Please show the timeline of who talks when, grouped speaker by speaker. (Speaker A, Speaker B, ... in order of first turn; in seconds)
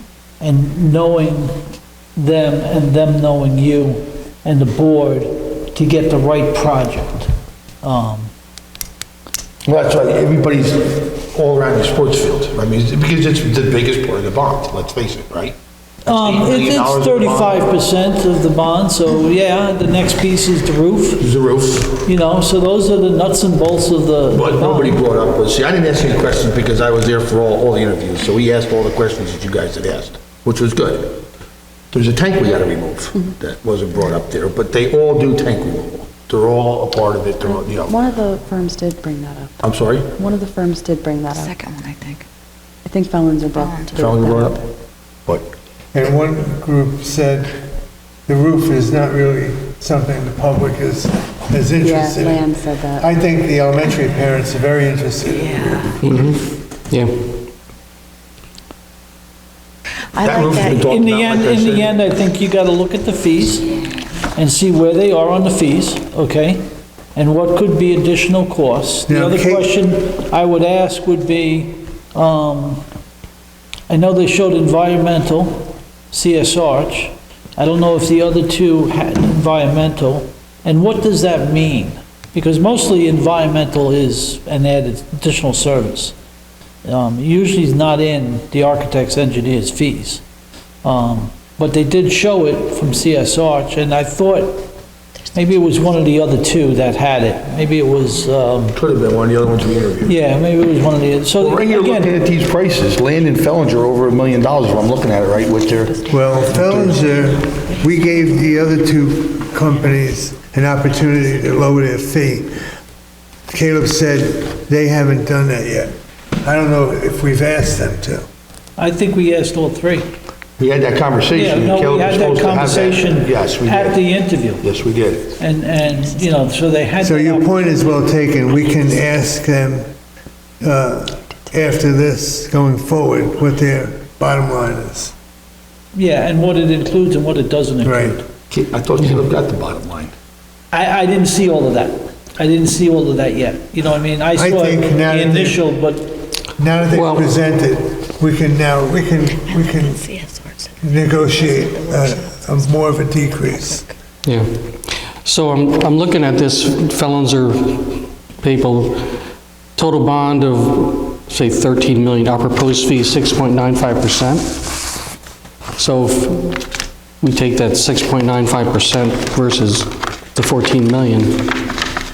Speaker A: 0.4-1.6, 2.2-8.3, 16.1-21.3, 22.0-25.0, 60.6-63.7, 64.3-66.6, 67.2-72.8, 73.9-86.2, 86.8-90.2, 90.8-94.7, 95.3-98.8, 100.0-102.1, 118.8-120.1, 121.3-124.7, 125.4-127.9, 135.9-138.2, 140.7-146.2
Speaker B: 9.7-17.7, 21.2-22.0, 24.3-31.3, 31.9-38.0, 39.6-40.1, 44.0-44.6, 45.3-45.5, 60.2-61.9, 98.7-100.1, 101.4-107.0, 120.6-124.0, 124.6-125.3, 138.5-140.1
Speaker C: 37.4-39.6, 40.2-41.5, 42.9-44.6, 51.8-53.1
Speaker D: 41.4-42.3, 43.6-44.0, 55.4-55.8, 60.1-60.9, 149.5-150.8, 151.3-152.6, 153.4-153.8
Speaker E: 45.9-47.5, 48.3-56.2, 69.1-69.7, 106.1-112.5, 113.5-118.2, 127.0-129.9, 130.6-135.1, 137.8-138.2, 144.3-145.6, 146.6-150.1, 150.8-153.8
Speaker F: 56.0-57.1, 146.9-147.3, 154.2-159.2, 159.8-164.8, 165.8-166.7, 167.2-171.8